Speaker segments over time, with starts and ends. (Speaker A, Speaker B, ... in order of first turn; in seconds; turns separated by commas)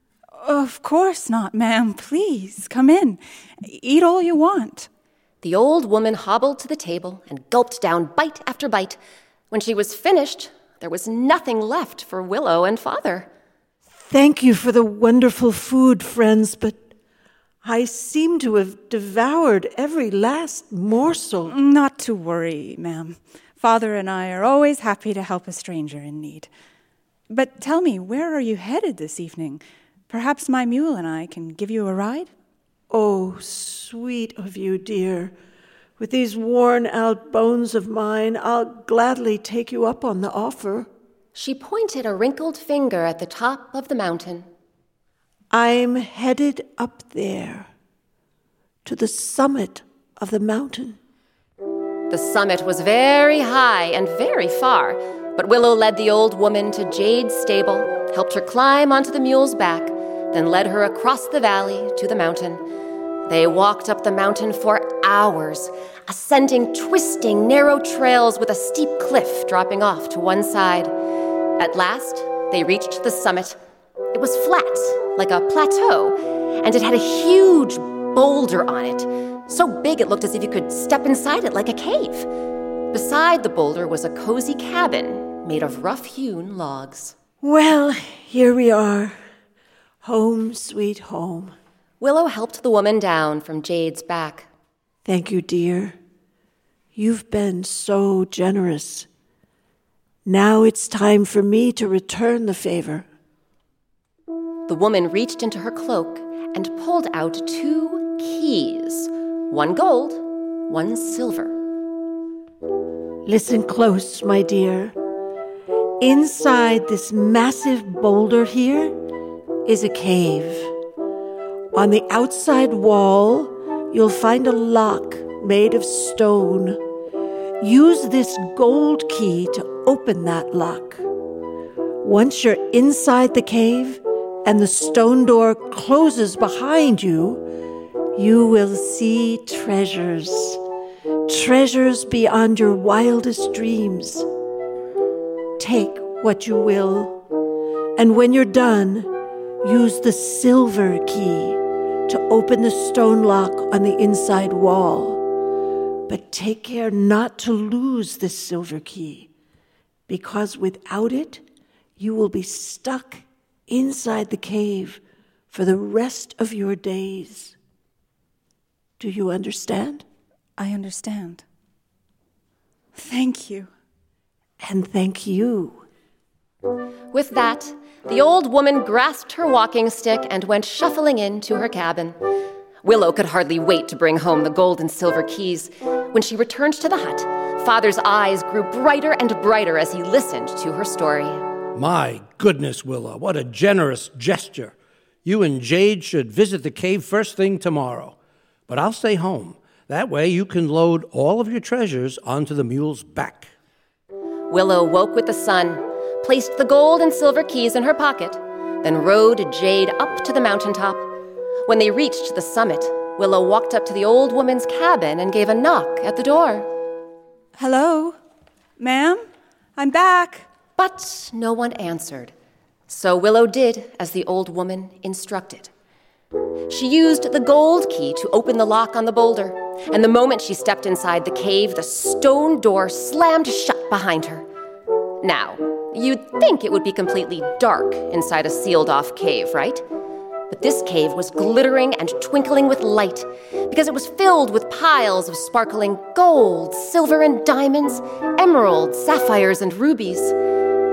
Speaker A: 0.4-4.9, Speaker B: 5.4-9.0, Speaker B: 9.5-13.3, Speaker C: 13.9-16.8, Speaker C: 17.6-21.6, Speaker A: 21.5-26.5, Speaker A: 27.3-32.3, Speaker C: 32.9-35.3, Speaker C: 36.0-40.9, Speaker B: 41.4-44.5, Speaker C: 45.5-47.7, Speaker C: 48.9-51.0, Speaker B: 52.1-62.6, Speaker B: 63.3-70.9, Speaker B: 71.6-73.6, Speaker B: 74.1-82.3, Speaker B: 82.9-87.2, Speaker C: 87.4-89.2, Speaker C: 90.0-91.5, Speaker B: 92.0-94.5, Speaker C: 95.0-96.0, Speaker C: 97.0-99.1, Speaker C: 100.2-103.1, Speaker B: 104.7-111.5, Speaker C: 113.2-115.0, Speaker C: 116.0-119.0, Speaker C: 119.7-120.7, Speaker C: 121.7-126.8, Speaker C: 127.6-131.1, Speaker C: 132.0-137.5, Speaker C: 138.2-140.6, Speaker C: 141.3-144.3, Speaker C: 145.6-147.2, Speaker C: 148.0-155.2, Speaker C: 156.1-159.3, Speaker C: 160.1-161.4, Speaker C: 162.0-167.6, Speaker C: 169.0-170.1, Speaker A: 170.6-171.4, Speaker A: 173.0-173.7, Speaker C: 174.6-175.8, Speaker B: 177.1-182.2, Speaker B: 182.8-191.4, Speaker D: 191.8-194.7, Speaker D: 195.2-198.2, Speaker D: 198.7-203.5, Speaker B: 204.5-211.1, Speaker B: 211.7-216.7, Speaker A: 217.6-218.2, Speaker A: 218.8-219.2, Speaker A: 219.8-220.5, Speaker B: 220.8-222.3, Speaker B: 222.9-225.7, Speaker B: 226.7-234.5, Speaker B: 235.2-239.8, Speaker B: 240.5-250.3